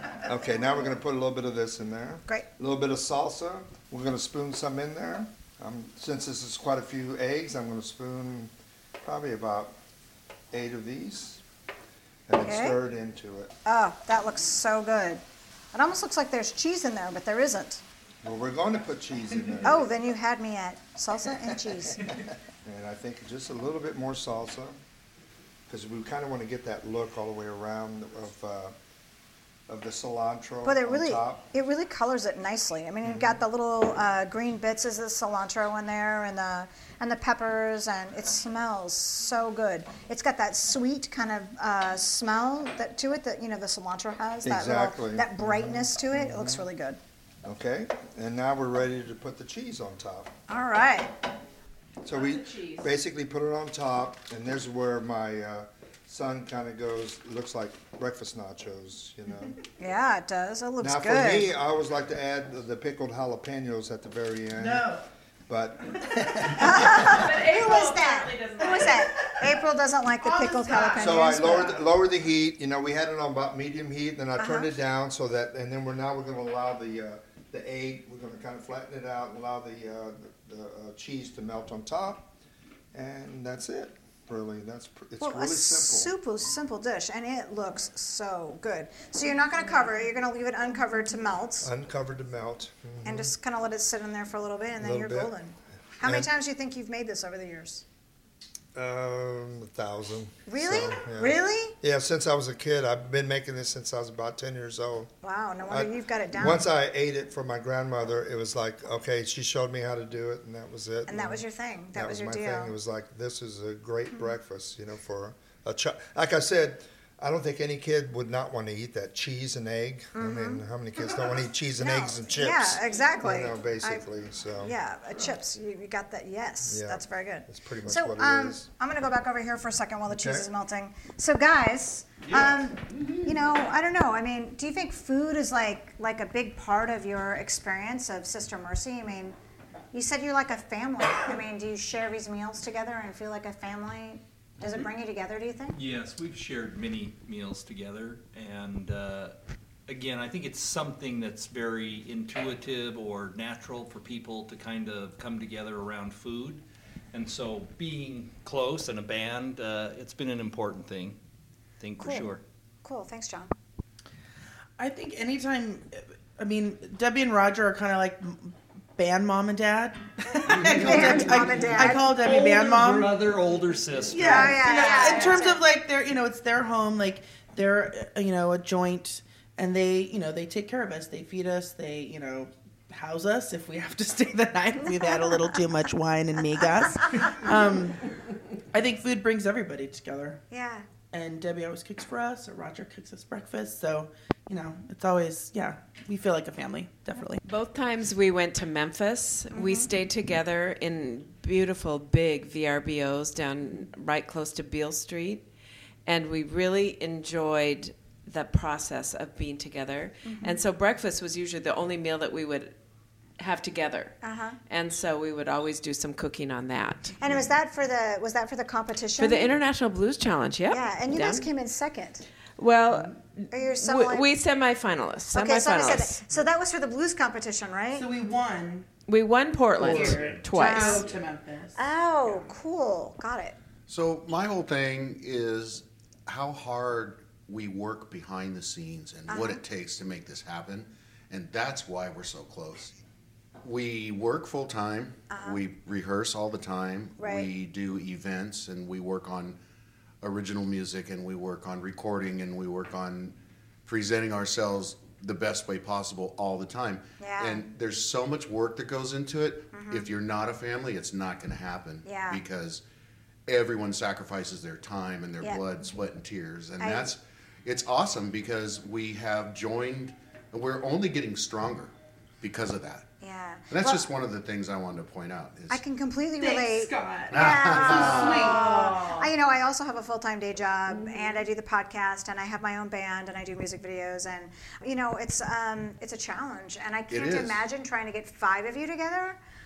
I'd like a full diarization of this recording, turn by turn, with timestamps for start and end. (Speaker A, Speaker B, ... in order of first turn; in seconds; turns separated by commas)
Speaker A: 0.2-8.5, Speaker A: 9.0-9.8, Speaker A: 10.5-11.4, Speaker A: 12.3-13.5, Speaker B: 12.4-12.8, Speaker B: 13.7-15.2, Speaker B: 15.7-17.8, Speaker A: 18.2-19.8, Speaker B: 19.6-22.1, Speaker A: 21.5-24.8, Speaker A: 25.7-28.7, Speaker A: 29.7-31.4, Speaker B: 30.6-47.0, Speaker A: 33.0-33.4, Speaker A: 44.4-46.6, Speaker A: 47.4-50.3, Speaker B: 50.5-51.1, Speaker A: 52.0-59.6, Speaker C: 52.1-52.9, Speaker B: 59.8-61.5, Speaker A: 60.8-64.9, Speaker D: 64.5-65.0, Speaker A: 65.5-67.3, Speaker B: 66.5-71.7, Speaker C: 67.0-69.1, Speaker D: 70.2-71.8, Speaker A: 71.0-82.3, Speaker B: 74.4-74.7, Speaker A: 82.9-86.1, Speaker B: 85.2-91.7, Speaker A: 91.6-93.3, Speaker B: 93.0-97.8, Speaker A: 94.8-95.3, Speaker A: 96.0-96.3, Speaker A: 98.7-105.1, Speaker B: 100.5-101.8, Speaker B: 105.2-106.6, Speaker A: 105.7-124.8, Speaker B: 111.1-112.7, Speaker B: 120.1-120.6, Speaker B: 121.8-124.0, Speaker B: 124.6-139.3, Speaker A: 126.6-128.7, Speaker A: 130.1-130.5, Speaker B: 139.9-145.8, Speaker E: 145.7-149.3, Speaker E: 149.9-161.2, Speaker E: 161.8-162.4, Speaker B: 162.0-163.5, Speaker D: 164.8-173.2, Speaker E: 170.5-175.1, Speaker B: 170.5-172.2, Speaker D: 174.1-188.1, Speaker B: 174.2-175.6, Speaker D: 188.7-190.4, Speaker B: 190.5-190.8, Speaker D: 191.1-197.4, Speaker C: 197.4-205.4, Speaker B: 199.5-199.9, Speaker C: 206.1-212.7, Speaker B: 210.2-210.6, Speaker C: 213.4-214.1, Speaker B: 214.2-214.6, Speaker C: 214.7-217.2, Speaker B: 217.2-219.5, Speaker C: 219.2-221.5, Speaker B: 220.7-222.2, Speaker C: 222.6-226.2, Speaker B: 223.5-224.3, Speaker B: 225.3-228.1, Speaker D: 227.9-228.9, Speaker C: 229.1-231.1, Speaker D: 229.8-231.8, Speaker E: 230.1-230.3, Speaker B: 230.6-231.1, Speaker B: 231.8-233.6, Speaker F: 233.9-243.0, Speaker B: 239.3-239.6, Speaker F: 243.6-249.6, Speaker B: 245.3-245.6, Speaker B: 247.2-247.5, Speaker F: 250.2-253.3, Speaker F: 253.8-262.8, Speaker B: 257.2-257.6, Speaker B: 259.7-260.1, Speaker B: 262.0-262.4, Speaker F: 263.5-273.1, Speaker B: 266.8-267.1, Speaker B: 273.2-274.0, Speaker F: 273.7-275.8, Speaker B: 275.7-289.4, Speaker D: 276.4-279.3, Speaker F: 277.3-278.8, Speaker F: 287.1-287.6